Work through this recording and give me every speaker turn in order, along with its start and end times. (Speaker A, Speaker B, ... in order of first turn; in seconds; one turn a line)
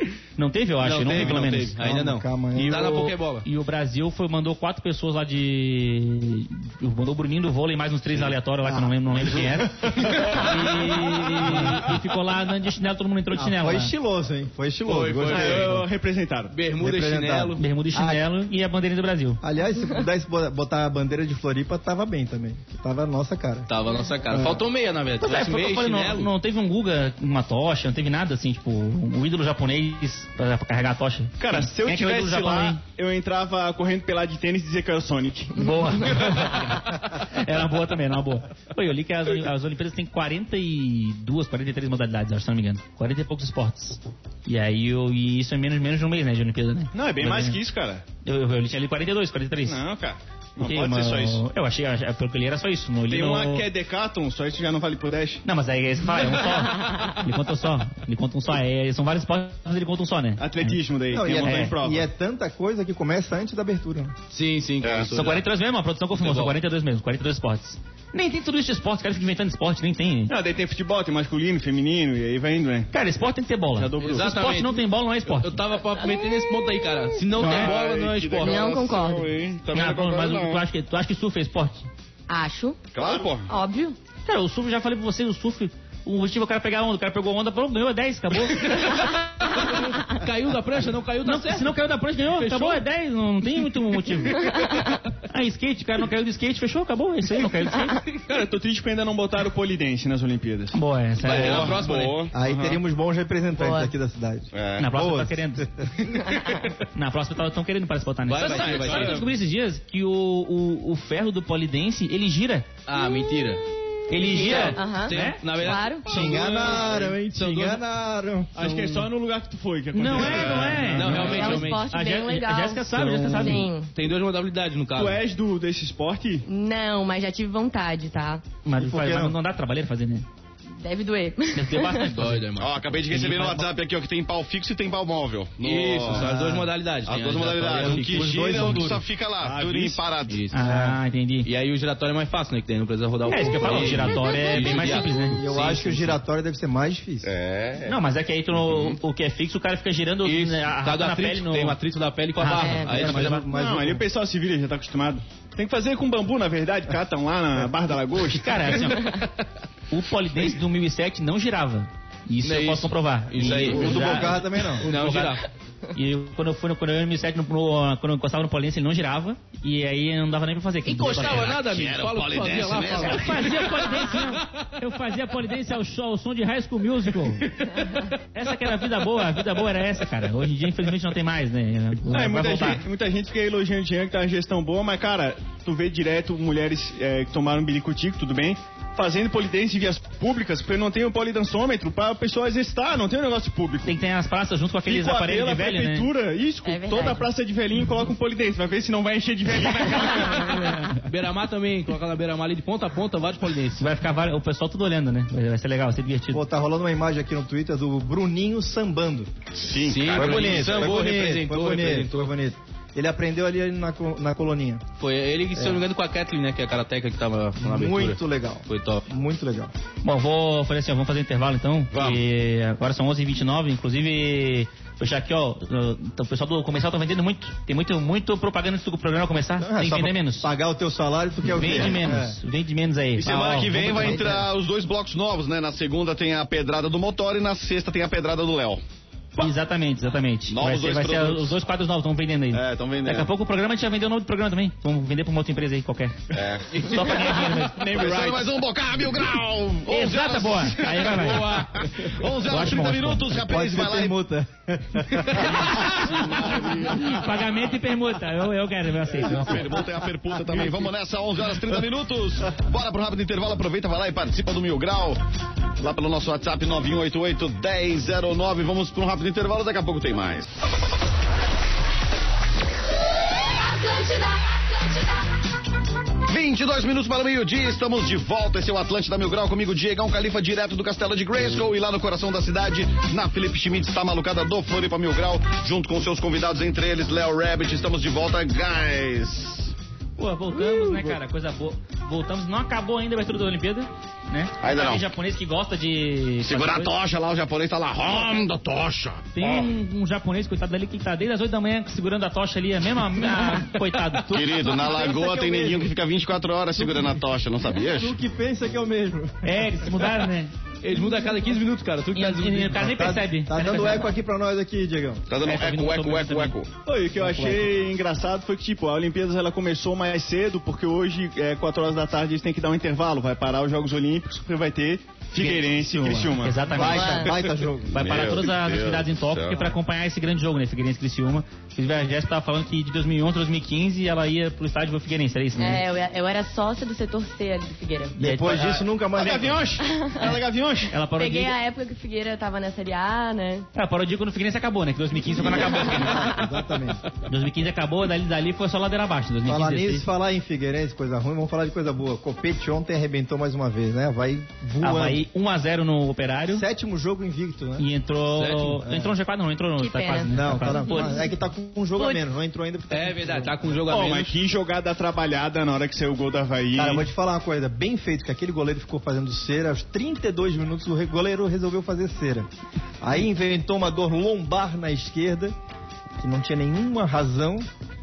Speaker A: 0.3-1.7
Speaker B: 0.8-3.5
Speaker C: 1.8-2.8
Speaker A: 2.5-13.9
Speaker C: 8.6-10.3
Speaker C: 11.4-11.7
Speaker C: 13.3-15.9
Speaker B: 14.8-15.8
Speaker D: 15.3-16.5
Speaker B: 16.5-17.6
Speaker C: 16.8-18.2
Speaker A: 17.6-19.4
Speaker C: 19.4-23.7
Speaker B: 23.7-26.3
Speaker C: 24.3-24.6
Speaker A: 25.2-32.8
Speaker D: 31.4-36.4
Speaker A: 35.5-47.6
Speaker D: 46.9-48.0
Speaker A: 48.2-49.8
Speaker D: 49.6-51.4
Speaker A: 50.6-53.7
Speaker D: 53.1-55.4
Speaker A: 55.4-60.8
Speaker D: 60.4-62.1
Speaker C: 61.1-64.1
Speaker A: 61.4-61.7
Speaker B: 64.3-65.4
Speaker E: 64.8-65.3
Speaker A: 65.1-70.3
Speaker B: 66.2-66.5
Speaker D: 70.3-72.9
Speaker A: 72.9-75.6
Speaker D: 73.7-74.4
Speaker B: 74.0-78.8
Speaker E: 77.3-80.6
Speaker A: 77.4-77.7
Speaker F: 78.4-79.3
Speaker A: 79.7-81.9
Speaker F: 82.3-82.8
Speaker E: 82.9-83.5
Speaker F: 83.5-84.0
Speaker A: 84.2-88.9
Speaker B: 88.6-92.8
Speaker A: 91.2-94.6
Speaker A: 95.3-98.0
Speaker D: 98.2-100.8
Speaker A: 100.7-101.8
Speaker B: 101.2-102.3
Speaker E: 101.2-102.6
Speaker C: 102.3-105.9
Speaker F: 103.5-103.9
Speaker E: 104.5-104.9
Speaker A: 104.8-105.7
Speaker A: 106.9-112.7
Speaker B: 108.3-109.3
Speaker E: 108.5-109.0
Speaker D: 108.8-109.2
Speaker B: 112.9-113.6
Speaker A: 114.1-115.4
Speaker B: 114.2-117.8
Speaker F: 114.2-116.1
Speaker C: 116.0-119.0
Speaker D: 118.5-121.6
Speaker A: 119.9-123.7
Speaker E: 120.3-120.6
Speaker B: 120.8-121.8
Speaker F: 121.2-123.9
Speaker B: 123.0-125.2
Speaker D: 124.9-126.4
Speaker F: 126.5-128.4
Speaker A: 128.6-130.2
Speaker C: 128.7-129.4
Speaker F: 130.8-132.1
Speaker A: 131.5-132.5
Speaker B: 132.1-132.9
Speaker E: 132.6-136.3
Speaker A: 133.1-133.7
Speaker B: 135.6-138.9
Speaker C: 136.1-136.7
Speaker E: 137.1-140.4
Speaker C: 137.7-139.0
Speaker D: 139.4-140.0
Speaker B: 140.3-140.9
Speaker A: 140.5-141.5
Speaker B: 141.4-146.2
Speaker A: 143.3-145.4
Speaker C: 145.3-147.3
Speaker E: 147.2-148.0
Speaker A: 147.8-151.8
Speaker E: 148.5-149.0
Speaker B: 150.2-153.4
Speaker A: 152.4-153.4
Speaker F: 152.6-153.0
Speaker C: 152.9-154.0
Speaker D: 153.5-159.0
Speaker A: 158.4-159.2
Speaker A: 159.9-165.4
Speaker B: 162.4-165.4
Speaker C: 163.4-164.9
Speaker A: 165.9-171.6
Speaker B: 170.8-174.3
Speaker E: 171.2-173.6
Speaker A: 173.0-177.5
Speaker A: 178.3-182.8
Speaker D: 182.1-193.9
Speaker A: 193.8-196.1
Speaker D: 194.8-201.0
Speaker F: 196.6-197.3
Speaker A: 200.3-200.9
Speaker B: 200.9-203.9
Speaker A: 203.8-206.4
Speaker C: 206.3-209.3
Speaker E: 209.5-210.9
Speaker B: 209.8-212.3
Speaker C: 210.0-214.8
Speaker B: 215.0-219.0
Speaker C: 215.5-215.8
Speaker C: 217.6-219.7
Speaker A: 220.0-230.5
Speaker E: 221.9-222.2
Speaker C: 229.6-232.4
Speaker A: 231.5-234.3
Speaker E: 233.2-238.8
Speaker C: 233.7-234.5
Speaker A: 239.3-246.2
Speaker E: 240.5-241.6
Speaker E: 242.5-243.3
Speaker E: 246.3-254.2
Speaker A: 246.7-248.3
Speaker A: 249.9-251.7
Speaker B: 251.0-251.9
Speaker A: 252.4-253.3
Speaker C: 253.4-255.7
Speaker A: 255.4-259.6
Speaker E: 255.8-257.3
Speaker E: 259.1-265.2
Speaker E: 265.8-270.5
Speaker F: 273.8-274.3
Speaker E: 276.3-289.7
Speaker A: 290.2-296.9
Speaker E: 294.6-295.1
Speaker E: 296.4-299.7
Speaker A: 299.3-304.4
Speaker C: 304.3-305.9
Speaker E: 304.3-308.2
Speaker C: 306.8-307.0
Speaker C: 307.8-309.9
Speaker A: 309.4-310.5
Speaker B: 310.8-312.9
Speaker A: 312.1-314.1
Speaker C: 312.8-315.2
Speaker E: 315.3-316.7
Speaker A: 315.4-316.5
Speaker D: 316.8-326.9
Speaker C: 317.2-317.7
Speaker C: 325.4-328.0
Speaker A: 326.4-327.3
Speaker F: 326.8-327.4
Speaker E: 327.9-329.7
Speaker A: 327.9-335.8
Speaker F: 335.6-338.2
Speaker A: 338.2-338.8
Speaker C: 338.2-339.7
Speaker D: 339.1-341.0
Speaker F: 339.8-340.4
Speaker A: 340.9-341.5
Speaker F: 341.1-343.7
Speaker A: 343.7-346.3
Speaker C: 345.4-347.0
Speaker F: 345.9-346.4
Speaker A: 347.3-350.1
Speaker C: 349.4-355.2
Speaker A: 354.8-356.6
Speaker C: 356.5-357.9
Speaker A: 357.8-361.2
Speaker B: 358.3-358.8
Speaker C: 358.8-359.1
Speaker F: 359.8-361.2
Speaker C: 360.3-363.7
Speaker F: 362.0-362.2
Speaker B: 362.9-364.3
Speaker D: 363.9-367.1
Speaker C: 366.8-372.5
Speaker C: 373.0-375.5
Speaker C: 376.2-377.7